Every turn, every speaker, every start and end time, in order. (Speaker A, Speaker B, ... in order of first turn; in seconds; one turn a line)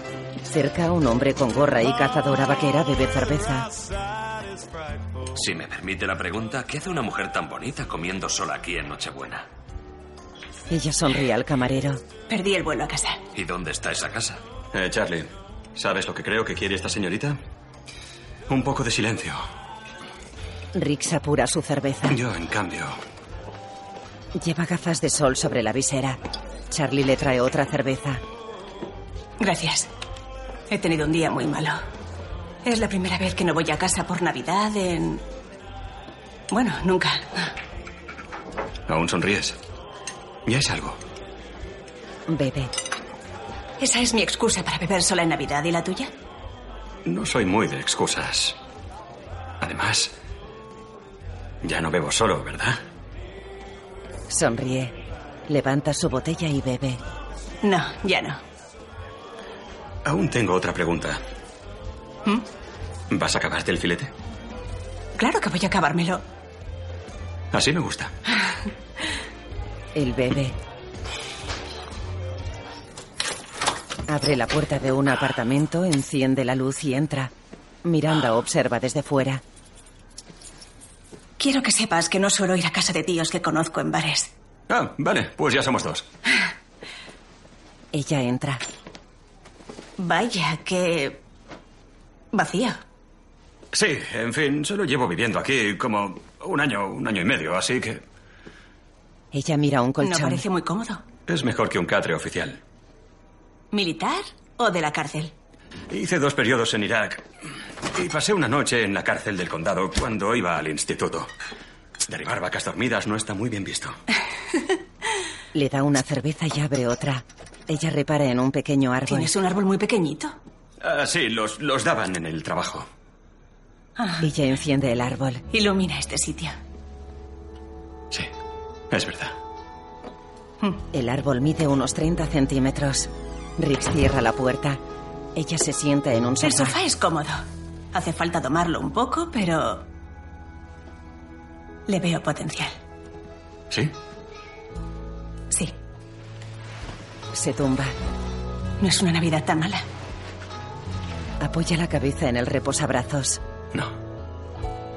Speaker A: 0.5-3.7
Speaker B: 5.3-9.5
Speaker A: 10.7-12.0
Speaker C: 12.3-13.2
Speaker B: 13.3-14.4
Speaker D: 14.7-17.4
Speaker D: 18.5-19.4
Speaker A: 20.8-22.2
Speaker D: 22.1-23.0
Speaker A: 24.4-28.2
Speaker C: 29.4-29.9
Speaker C: 30.7-31.8
Speaker C: 32.6-35.2
Speaker C: 36.5-37.5
Speaker D: 38.9-39.6
Speaker D: 40.5-41.0
Speaker A: 42.3-42.7
Speaker C: 43.8-46.1
Speaker D: 47.0-48.6
Speaker D: 49.6-50.1
Speaker D: 51.6-52.8
Speaker A: 54.3-57.0
Speaker C: 57.6-58.4
Speaker D: 60.0-61.2
Speaker D: 63.1-64.1
Speaker C: 65.2-66.2
Speaker D: 67.5-68.1
Speaker A: 70.0-70.6
Speaker A: 74.1-77.3
Speaker A: 77.8-79.4
Speaker C: 81.4-84.3
Speaker D: 84.7-86.1
Speaker A: 87.9-88.6
Speaker C: 90.0-91.2
Speaker C: 92.3-92.8
Speaker D: 93.7-98.0
Speaker A: 99.3-100.5
Speaker C: 100.0-101.0
Speaker D: 101.3-102.6
Speaker C: 103.7-105.3
Speaker D: 105.9-107.3
Speaker D: 107.9-111.3
Speaker D: 112.1-114.0
Speaker A: 115.5-119.3
Speaker C: 119.1-120.4
Speaker D: 120.8-122.9
Speaker C: 124.0-124.3
Speaker A: 124.2-125.5
Speaker C: 125.5-126.6
Speaker D: 128.9-129.3
Speaker A: 130.9-134.8
Speaker A: 135.3-136.8
Speaker C: 136.4-137.4
Speaker C: 137.9-139.9
Speaker C: 141.9-142.8
Speaker A: 147.3-147.9
Speaker C: 148.8-149.8
Speaker A: 151.4-153.4